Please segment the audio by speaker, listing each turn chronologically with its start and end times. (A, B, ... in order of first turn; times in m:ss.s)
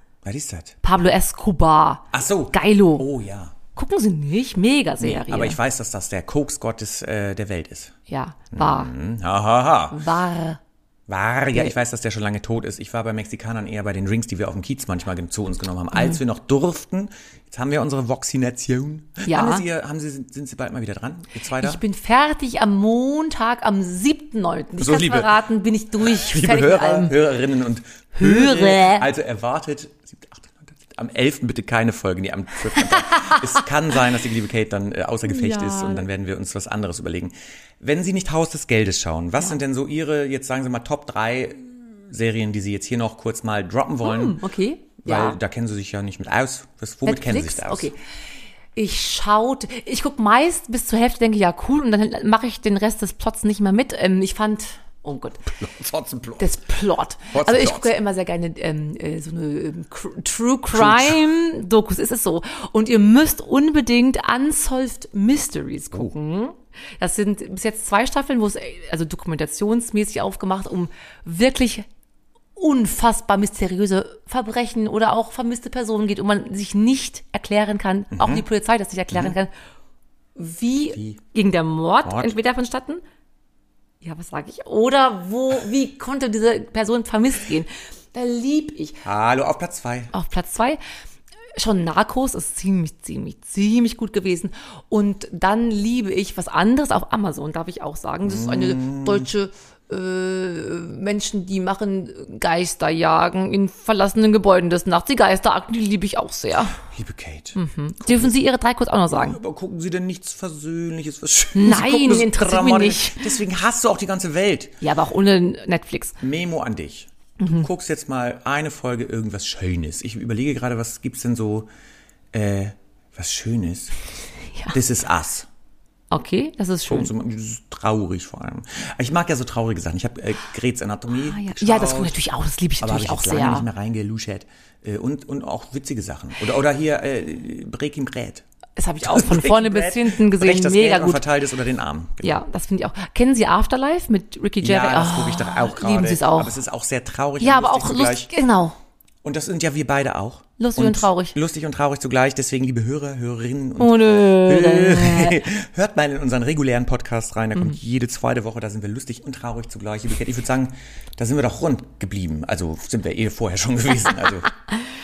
0:00.2-0:00.8 A
0:00.8-0:03.1 B
0:02.1-0:03.6 A
0:03.8-0:05.6 B
0:05.0-0:07.9 A
0:08.1-0:08.9 B
0:08.5-0:10.0 A
0:09.9-0:10.6 B
0:11.1-0:21.8 A
0:15.9-0:16.2 B
0:19.3-0:19.6 B
0:21.6-0:27.2 B
0:24.8-0:25.3 A
0:26.0-0:44.4 A
0:28.2-0:29.1 B
0:35.2-0:36.1 B
0:44.0-0:45.4 B
0:45.0-0:47.9 A
0:47.0-0:48.0 B
0:48.8-0:55.5 B
0:55.5-0:56.5 A
0:56.4-1:11.9 B
0:57.3-0:57.9 A
1:00.7-1:01.2 A
1:12.6-1:19.5 B
1:18.1-1:18.4 A
1:20.4-1:23.0 B
1:22.0-1:22.4 A
1:24.0-1:29.0 B
1:29.0-1:30.1 A
1:30.1-1:30.8 B
1:31.6-1:46.8 B
1:38.2-1:39.3 A
1:46.9-1:48.4 A
1:47.6-1:49.4 B
1:49.1-1:54.8 A
1:51.6-1:53.4 B
1:54.8-1:56.2 B
1:56.2-2:01.7 A
1:57.4-1:57.7 B
2:02.3-2:04.0 A
2:04.7-2:05.5 A
2:06.1-2:07.1 B
2:06.9-2:12.2 A
2:11.2-2:13.7 B
2:12.8-2:18.4 A
2:18.8-2:21.2 B
2:19.0-2:22.4 A
2:22.2-2:26.6 B
2:24.6-2:28.3 A
2:27.4-2:28.8 B
2:29.2-2:44.5 A
2:30.6-2:31.4 B
2:33.8-2:35.4 B